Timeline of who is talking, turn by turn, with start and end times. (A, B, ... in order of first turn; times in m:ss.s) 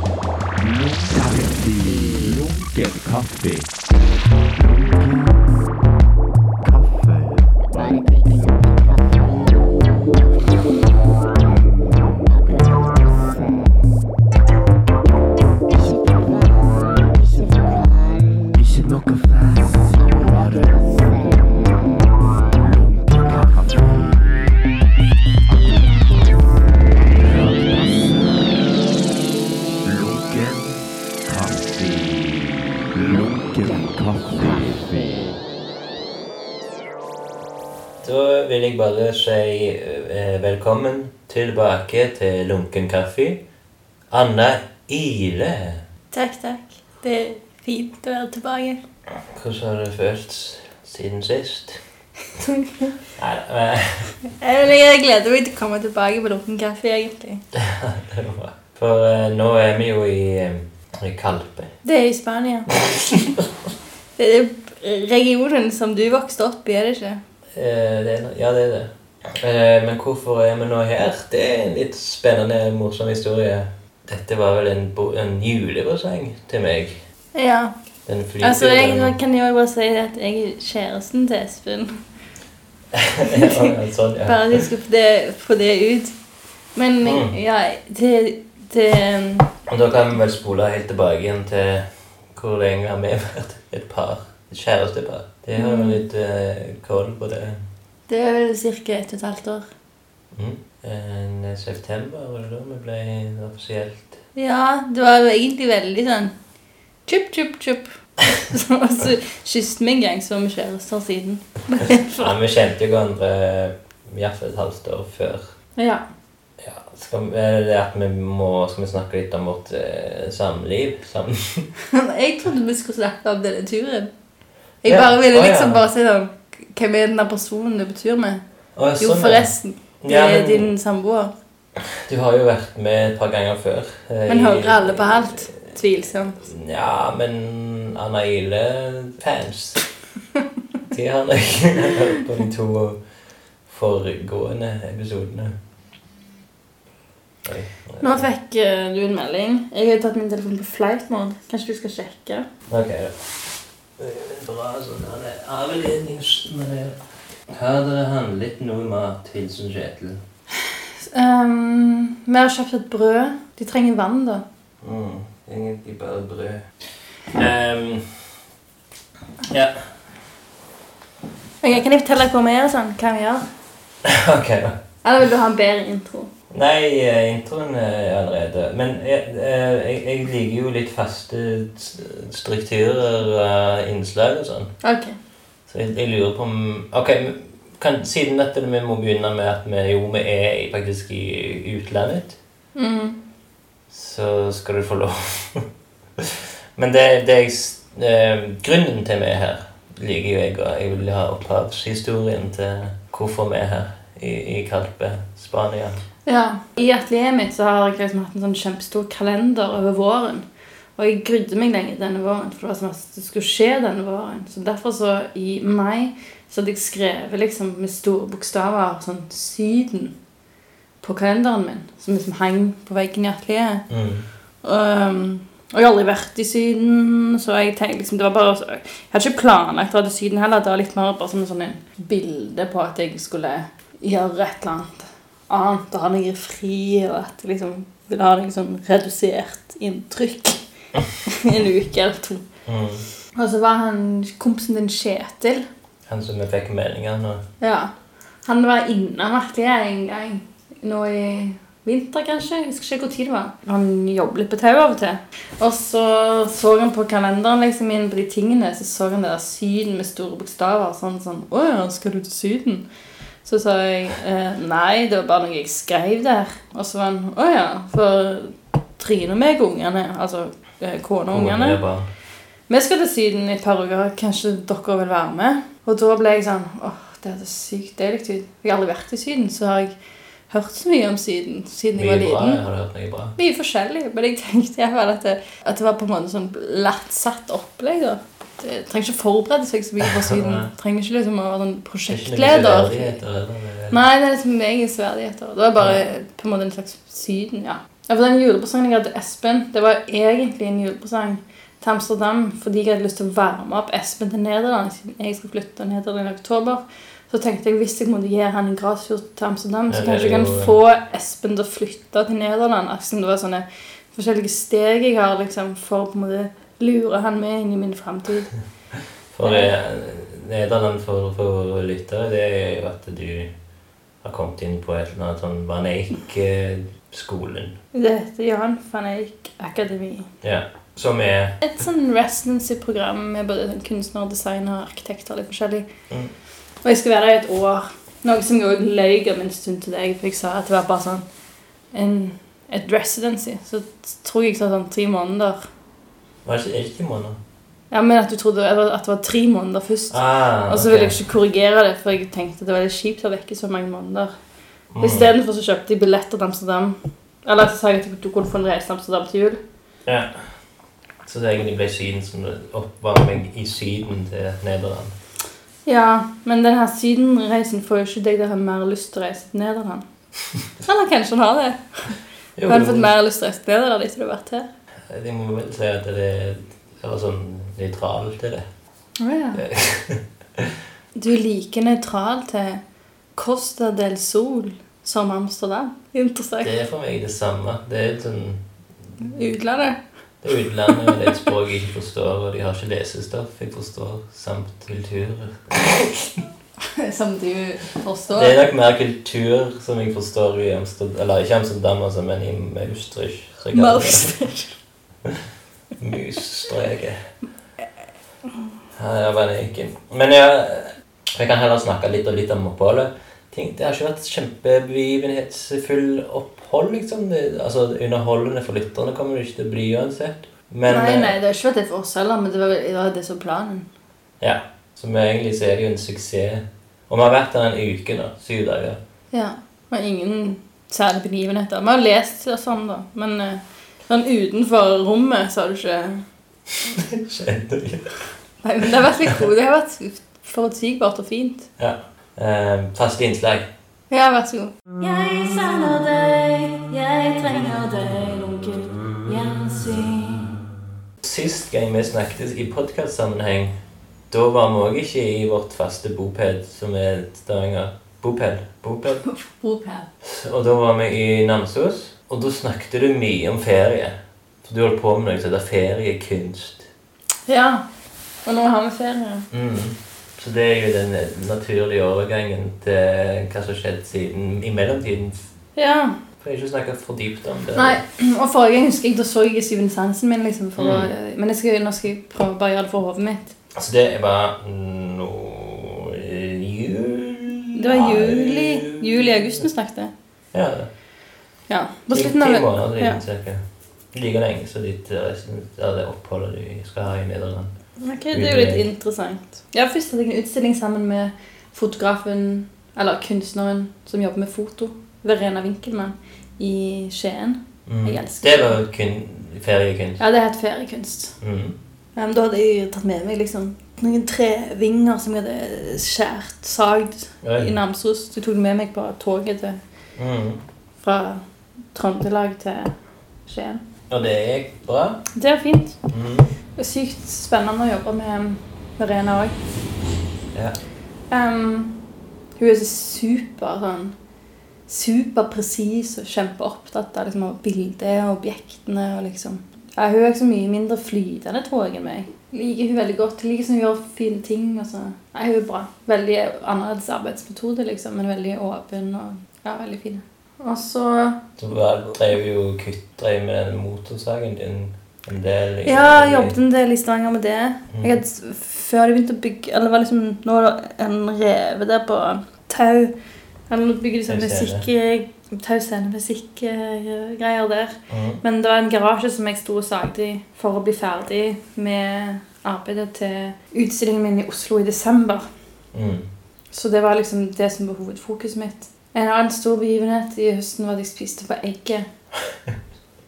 0:00.6-0:04.1 A
0:04.7-0:05.4 A
0:06.6-0:07.8 A
0:08.4-0:09.2 A
0:18.5-0:21.3 A
0:22.6-0:24.4 A
0:27.2-0:28.8 A
0:29.8-0:35.4 A
0:38.0-0:43.4 B
0:44.1-0:45.8 B
0:46.1-0:48.8 C
0:49.3-0:51.8 B
0:52.4-0:52.9 C
0:53.2-0:54.2 B
0:54.4-0:57.4 C
0:57.5-1:01.7 B
1:01.8-1:02.8 C
1:02.8-1:03.5 B
1:04.2-1:07.2 C
1:07.5-1:17.0 B
1:17.4-1:17.7 C
1:18.1-1:19.2 B
1:18.4-1:22.0 C
1:22.9-1:24.6 B
1:23.3-1:23.7 C
1:24.2-1:26.2 C
1:26.8-1:29.5 C
1:27.0-1:27.4 B
1:29.7-1:37.6 B
1:35.6-1:36.0 C
1:38.1-1:39.6 C
1:40.3-1:44.2 B
1:44.4-1:46.3 C
1:47.1-1:52.4 C
1:52.2-1:55.5 B
1:55.8-1:56.0 C
1:56.6-2:01.7 B
2:01.9-2:04.1 C
2:04.8-2:08.4 C
2:04.8-2:05.8 B
2:08.8-2:10.7 B
2:09.0-2:11.3 C
2:12.0-2:15.5 B
2:14.3-2:16.4 C
2:16.4-2:19.8 B
2:20.9-2:23.0 B
2:23.6-2:25.6 B
2:27.4-2:28.3 B
2:28.0-2:32.5 C
2:32.7-2:33.4 B
2:34.0-2:40.2 B
2:41.1-2:44.4 C
2:44.8-2:46.7 B
2:47.3-2:48.4 B
2:49.5-2:49.9 B
2:51.6-2:53.5 C
2:54.0-2:54.8 B
2:55.0-2:56.3 C
2:56.5-3:04.7 B
3:04.8-3:05.2 C
3:05.7-3:12.4 B
3:12.8-3:13.2 C
3:13.9-3:15.7 B
3:16.2-3:26.0 B
3:26.3-3:30.4 C
3:31.0-3:40.2 C
3:41.0-3:43.9 C
3:43.9-3:44.3 B
3:44.6-4:00.6 C
4:01.2-4:02.5 C
4:02.7-4:03.1 B
4:03.4-4:05.6 C
4:06.1-4:07.4 B
4:07.6-4:07.9 C
4:08.4-4:22.9 C
4:23.4-4:31.8 C
4:31.3-4:32.1 B
4:32.7-4:39.9 C
4:40.5-4:42.6 C
4:42.0-4:43.4 B
4:43.4-4:53.2 C
4:50.2-4:50.7 B
4:52.1-4:54.0 B
4:53.9-5:18.5 C
5:09.9-5:10.8 B
5:19.3-5:23.5 B
5:19.4-5:19.7 C
5:24.2-5:27.8 B
5:27.9-5:30.3 C
5:30.4-5:31.6 B
5:31.6-5:35.9 C
5:36.8-5:41.2 C
5:41.9-5:45.7 C
5:46.4-5:47.4 B
5:47.9-5:54.3 C
5:50.1-5:51.2 B
5:54.9-5:55.3 B
5:55.0-5:59.6 C
6:00.1-6:00.6 B
6:01.2-6:05.1 B
6:05.9-6:10.0 C
6:10.8-6:14.7 C
6:12.6-6:13.1 B
6:15.1-6:18.6 B
6:19.2-6:19.6 C
6:19.5-6:20.8 B
6:21.2-6:22.8 C
6:23.4-6:26.7 C
6:26.6-6:28.6 B
6:29.2-6:30.0 C
6:30.4-6:36.1 B
6:36.8-6:38.6 C
6:38.4-6:44.4 B
6:43.7-6:44.8 C
6:46.0-6:47.2 B
6:49.0-7:01.4 B
7:00.9-7:03.9 C
7:04.4-7:09.0 B
7:09.3-7:16.3 C
7:17.0-7:18.1 B
7:18.6-7:21.7 C
7:21.8-7:23.7 B
7:24.1-7:30.6 C
7:31.2-7:33.8 B
7:34.3-7:39.2 B
7:39.2-7:40.1 C
7:40.2-7:46.9 B
7:47.5-7:47.9 C
7:48.4-7:49.5 C
7:49.5-7:55.4 B
7:55.8-7:56.2 C
7:56.4-7:58.0 B
7:57.8-8:03.6 C
8:00.8-8:01.1 B
8:03.8-8:09.6 B
8:07.8-8:10.1 C
8:10.5-8:10.9 B
8:11.7-8:13.2 C
8:12.1-8:17.7 B
8:18.0-8:28.8 C
8:18.3-8:18.9 B
8:27.9-8:30.2 B
8:30.2-8:31.4 C
8:31.4-8:31.7 B
8:32.2-8:39.8 C
8:37.4-8:37.7 B
8:40.2-8:40.6 B
8:41.0-8:42.9 C
8:43.4-8:43.8 C
8:44.1-8:45.2 B
8:45.4-8:46.0 C
8:46.1-8:46.5 B
8:46.8-8:49.6 C
8:50.5-8:50.8 B
8:51.3-8:52.0 C
8:52.6-8:54.2 C
8:54.9-9:11.4 C
9:11.6-9:16.6 B
9:15.8-9:23.1 C
9:17.9-9:18.2 B
9:23.7-9:35.5 C
9:24.3-9:24.9 B
9:28.1-9:28.4 B
9:35.9-9:36.3 B
9:36.7-9:42.1 C
9:42.4-9:42.8 B